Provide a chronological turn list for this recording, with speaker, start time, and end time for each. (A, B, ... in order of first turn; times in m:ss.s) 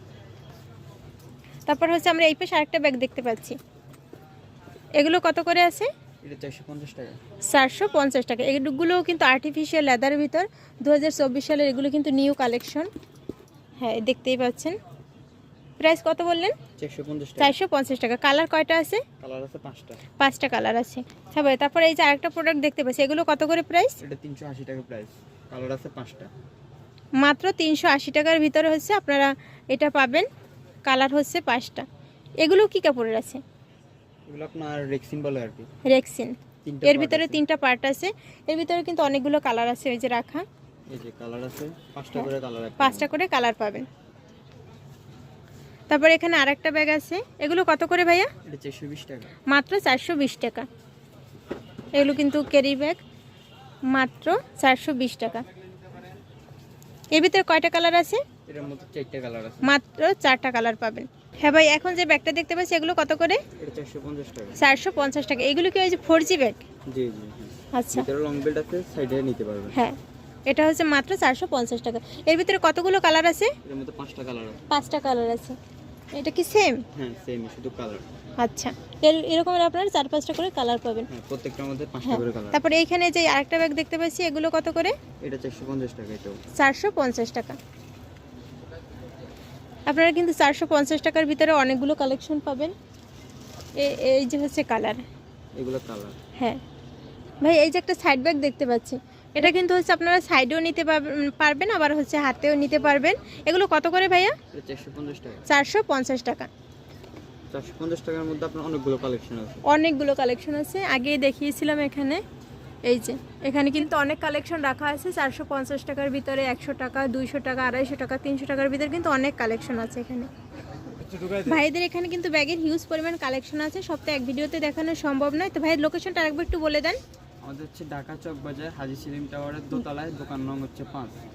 0:01.7-0:03.6 A
0:05.0-0:05.9 A
0:06.2-0:07.2 B
0:07.5-0:12.9 A
0:13.8-0:14.8 A
0:15.8-0:16.6 A
0:16.8-0:17.6 B
0:17.4-0:19.0 A
0:19.2-0:20.0 B
0:20.2-0:24.0 A
0:24.0-0:26.3 B
0:27.2-0:30.3 A
0:30.8-0:31.8 A
0:32.4-0:33.4 A
0:34.3-0:35.7 B
0:35.9-0:40.4 A
0:36.6-0:37.4 B
0:40.9-0:43.1 B
0:42.8-0:43.9 A
0:45.9-0:48.3 A
0:48.4-0:49.4 B
0:49.5-0:50.6 A
0:51.9-0:53.0 A
0:53.9-0:55.4 A
0:57.1-0:58.2 A
0:58.5-0:59.7 B
0:59.6-1:03.4 A
1:03.6-1:04.6 B
1:04.6-1:06.6 A
1:06.9-1:09.8 B
1:07.7-1:08.1 A
1:10.5-1:13.5 A
1:13.6-1:14.6 B
1:14.7-1:15.6 A
1:16.1-1:16.8 A
1:16.9-1:18.0 B
1:18.4-1:21.1 A
1:21.1-1:22.6 B
1:22.0-1:25.0 A
1:25.2-1:26.4 B
1:26.6-1:27.6 A
1:29.9-1:32.7 A
1:33.8-1:35.0 A
1:35.6-1:36.2 B
1:37.4-1:44.3 A
1:44.5-1:45.4 B
1:45.5-1:46.5 A
1:47.5-1:49.6 B
1:49.7-1:52.2 A
1:52.8-2:00.3 A
2:01.0-2:01.6 B
2:01.4-2:07.0 A
2:07.4-2:11.2 B